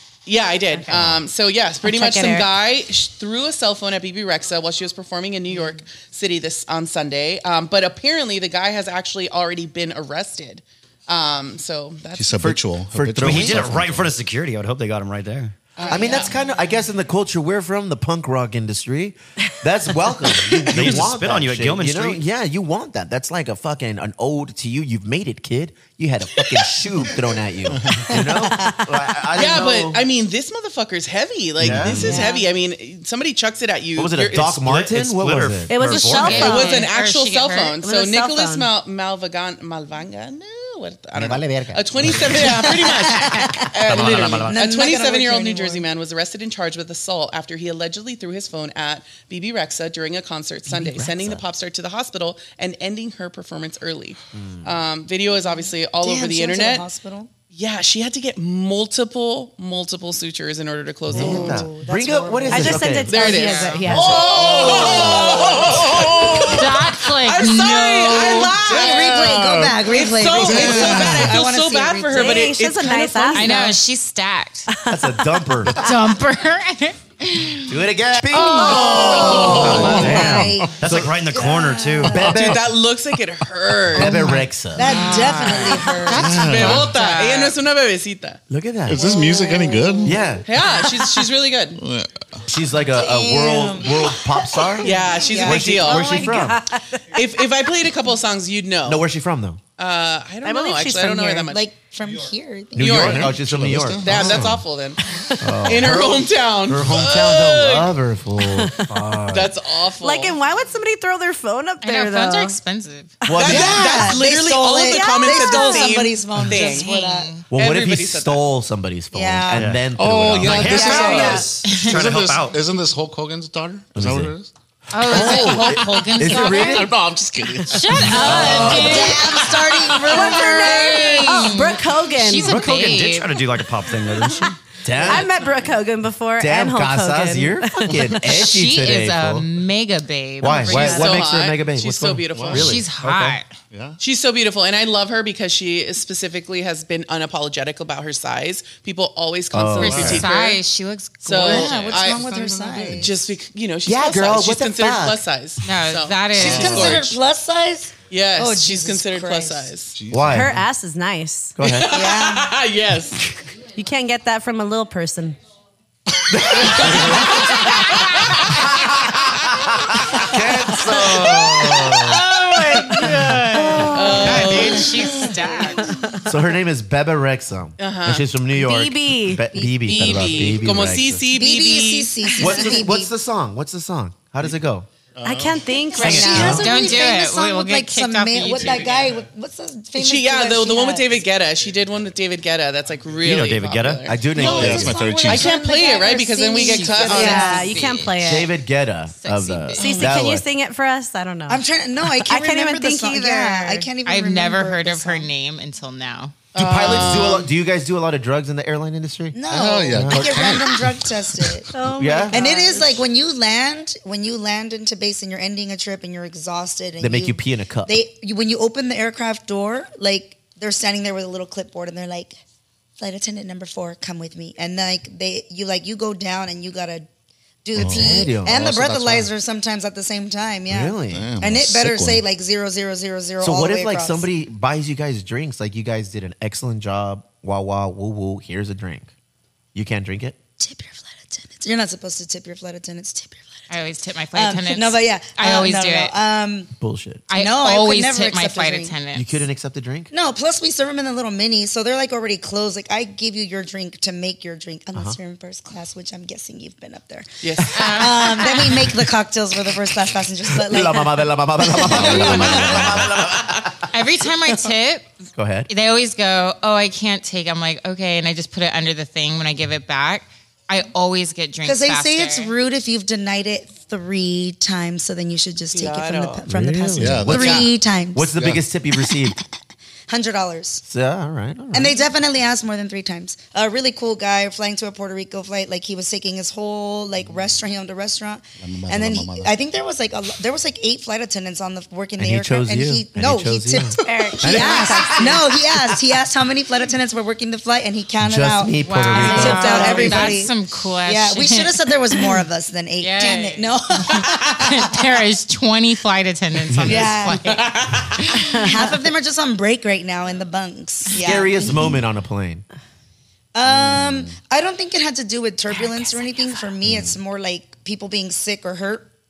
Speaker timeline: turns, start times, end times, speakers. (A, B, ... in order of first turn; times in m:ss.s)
0:00.2-0:12.4 A
0:00.7-0:01.1 B
0:00.9-0:01.2 C
0:01.8-0:02.5 B
0:12.1-0:14.1 D
0:12.3-0:13.9 C
0:13.2-0:15.5 E
0:15.8-0:16.4 A
0:15.8-0:30.0 C
0:20.7-0:22.2 E
0:27.7-0:28.1 D
0:28.0-0:28.8 F
0:29.3-0:34.6 A
0:31.6-0:32.2 C
0:32.0-0:32.5 F
0:34.0-0:35.7 C
0:34.4-0:36.6 E
0:35.7-0:36.9 B
0:36.1-0:37.8 G
0:36.4-0:56.9 A
0:37.8-0:38.7 B
0:41.1-0:42.9 C
0:43.0-0:43.7 F
0:43.8-0:44.7 E
0:44.4-0:45.9 F
0:50.7-0:51.4 C
0:54.3-0:54.7 C
0:55.5-0:57.3 F
0:57.5-1:01.6 A
1:01.1-1:03.3 C
1:01.1-1:03.3 F
1:01.1-1:01.6 B
1:02.5-1:04.9 B
1:03.1-1:09.2 A
1:03.2-1:03.8 G
1:03.8-1:06.4 C
1:04.5-1:05.7 F
1:04.9-1:06.5 D
1:06.5-1:08.4 G
1:08.5-1:12.3 F
1:08.8-1:11.4 D
1:09.8-1:13.5 A
1:12.1-1:13.8 B
1:13.3-1:14.7 G
1:14.7-1:15.2 B
1:14.9-1:15.8 C
1:15.8-1:17.7 G
1:17.7-1:21.1 C
1:18.3-1:19.5 G
1:18.7-1:20.8 D
1:18.9-1:22.3 F
1:20.8-1:22.3 E
1:22.0-1:22.7 C
1:22.1-1:22.7 D
1:22.3-1:24.2 A
1:23.9-1:24.9 C
1:23.9-1:24.4 D
1:24.7-1:26.5 F
1:24.9-1:27.6 G
1:26.1-1:27.0 D
1:26.4-1:28.4 A
1:28.5-1:29.0 C
1:28.8-1:30.2 D
1:29.0-1:30.1 F
1:30.0-1:30.5 C
1:30.5-1:31.8 A
1:30.5-1:31.0 B
1:31.8-1:32.4 D
1:32.4-1:36.6 C
1:32.9-1:36.3 F
1:34.8-1:36.2 A
1:35.7-1:37.2 B
1:37.1-1:39.1 A
1:38.8-1:39.6 C
1:39.8-1:41.7 A
1:40.4-1:41.5 B
1:41.5-1:43.0 F
1:42.7-1:44.6 C
1:42.8-1:43.3 A
1:42.9-1:44.6 D
1:44.0-1:45.0 A
1:45.1-1:45.5 B
1:45.4-1:49.6 C
1:45.6-1:47.9 A
1:48.5-1:48.8 B
1:49.3-1:50.3 A
1:50.0-1:52.6 B
1:51.8-1:53.2 G
1:53.2-1:54.0 C
1:53.4-1:56.9 A
1:53.4-1:57.4 F
1:54.8-1:56.0 B
1:56.5-1:57.4 G
1:57.5-1:58.5 A
1:57.5-2:01.4 C
1:59.1-1:59.6 F
1:59.5-1:59.8 E
2:00.0-2:04.5 D
2:00.4-2:02.6 E
2:00.7-2:01.4 F
2:01.0-2:01.9 G
2:03.9-2:04.3 C
2:04.9-2:06.9 G
2:05.0-2:06.9 C
2:05.1-2:09.7 D
2:07.7-2:09.2 G
2:08.0-2:09.0 B
2:08.2-2:09.1 C
2:08.7-2:11.4 F
2:10.1-2:12.6 B
2:10.5-2:13.3 G
2:10.7-2:11.3 A
2:12.4-2:14.6 E
2:14.8-2:15.3 C
2:15.1-2:18.1 B
2:16.4-2:19.4 C
2:18.2-2:21.0 G
2:20.4-2:22.9 C
2:20.6-2:22.6 A
2:20.7-2:21.2 B
2:22.3-2:24.0 D
2:22.5-2:23.5 G
2:24.0-2:30.6 A
2:29.5-2:30.2 C
2:29.8-2:30.3 D
2:29.9-2:32.2 G
2:31.2-2:32.3 A
2:31.4-2:31.7 C
2:31.4-2:33.2 F
2:32.5-2:33.1 D
2:32.9-2:37.1 A
2:33.8-2:35.2 C
2:35.6-2:37.0 G
2:36.4-2:37.1 C
2:36.4-2:39.8 F
2:38.1-2:40.0 A
2:39.9-2:40.7 D
2:40.1-2:40.6 C
2:40.2-2:41.6 B
2:41.6-2:41.9 C
2:41.6-2:43.3 A
2:41.9-2:42.5 F
2:43.7-2:45.4 B
2:46.3-2:47.4 C
2:46.7-2:47.2 D
2:50.1-2:52.2 C
2:52.0-2:53.0 A
2:52.6-2:55.9 G
2:53.8-2:55.7 F
2:53.9-2:54.3 B
2:53.9-2:55.1 A
2:56.2-3:01.3 C
2:57.8-2:58.3 A
2:58.5-2:59.5 B
2:59.5-3:00.4 F
2:59.7-3:02.2 A
3:01.2-3:03.1 F
3:02.3-3:04.9 C
3:05.2-3:05.8 D
3:05.2-3:06.7 B
3:06.0-3:11.1 F
3:06.0-3:06.6 E
3:06.3-3:06.7 C
3:06.5-3:09.0 G
3:10.0-3:17.6 A
3:13.2-3:14.2 E
3:14.0-3:15.0 C
3:14.3-3:15.6 D
3:14.4-3:17.8 F
3:16.6-3:18.2 G
3:17.1-3:18.5 B
3:18.2-3:20.4 C
3:19.2-3:20.1 G
3:19.8-3:21.6 B
3:21.5-3:25.3 F
3:22.2-3:23.9 B
3:24.0-3:26.3 G
3:26.5-3:27.5 A
3:26.5-3:29.4 C
3:29.3-3:31.7 F
3:29.5-3:31.6 D
3:29.9-3:30.4 C
3:31.7-3:33.0 B
3:31.9-3:32.4 C
3:32.3-3:42.4 F
3:37.0-3:38.0 C
3:43.0-3:47.1 F
3:47.6-3:54.3 F
3:47.8-3:48.6 C
3:47.8-3:49.3 D
3:50.7-3:51.3 C
3:51.1-3:52.2 D
3:53.4-3:59.1 C
3:59.7-4:00.4 C
4:00.6-4:03.6 F
4:03.7-4:06.1 G
4:04.3-4:06.7 F
4:06.8-4:07.2 C
4:07.3-4:09.4 G
4:07.3-4:09.0 F
4:09.1-4:10.1 C
4:10.1-4:23.0 F
4:17.4-4:17.8 A
4:17.6-4:17.8 C
4:17.7-4:18.7 G
4:20.5-4:23.9 C
4:22.0-4:23.0 D
4:23.9-4:25.1 G
4:25.3-4:25.7 C
4:25.7-4:32.5 G
4:31.6-4:38.3 F
4:35.7-4:36.4 A
4:36.5-4:39.4 C
4:37.0-4:37.7 D
4:38.4-4:38.6 D
4:39.0-4:39.4 F
4:40.1-4:40.8 F
4:40.9-4:42.0 C
4:41.7-5:05.0 F
4:48.6-4:49.5 D
4:52.2-4:55.2 C
4:54.0-4:55.6 B
4:58.2-5:00.4 C
4:58.8-5:01.8 G
4:59.4-5:00.2 B
5:03.0-5:07.8 G
5:06.8-5:07.6 F
5:08.3-5:11.8 F
5:11.2-5:12.6 C
5:13.5-5:19.1 F
5:13.8-5:14.3 D
5:16.9-5:17.1 C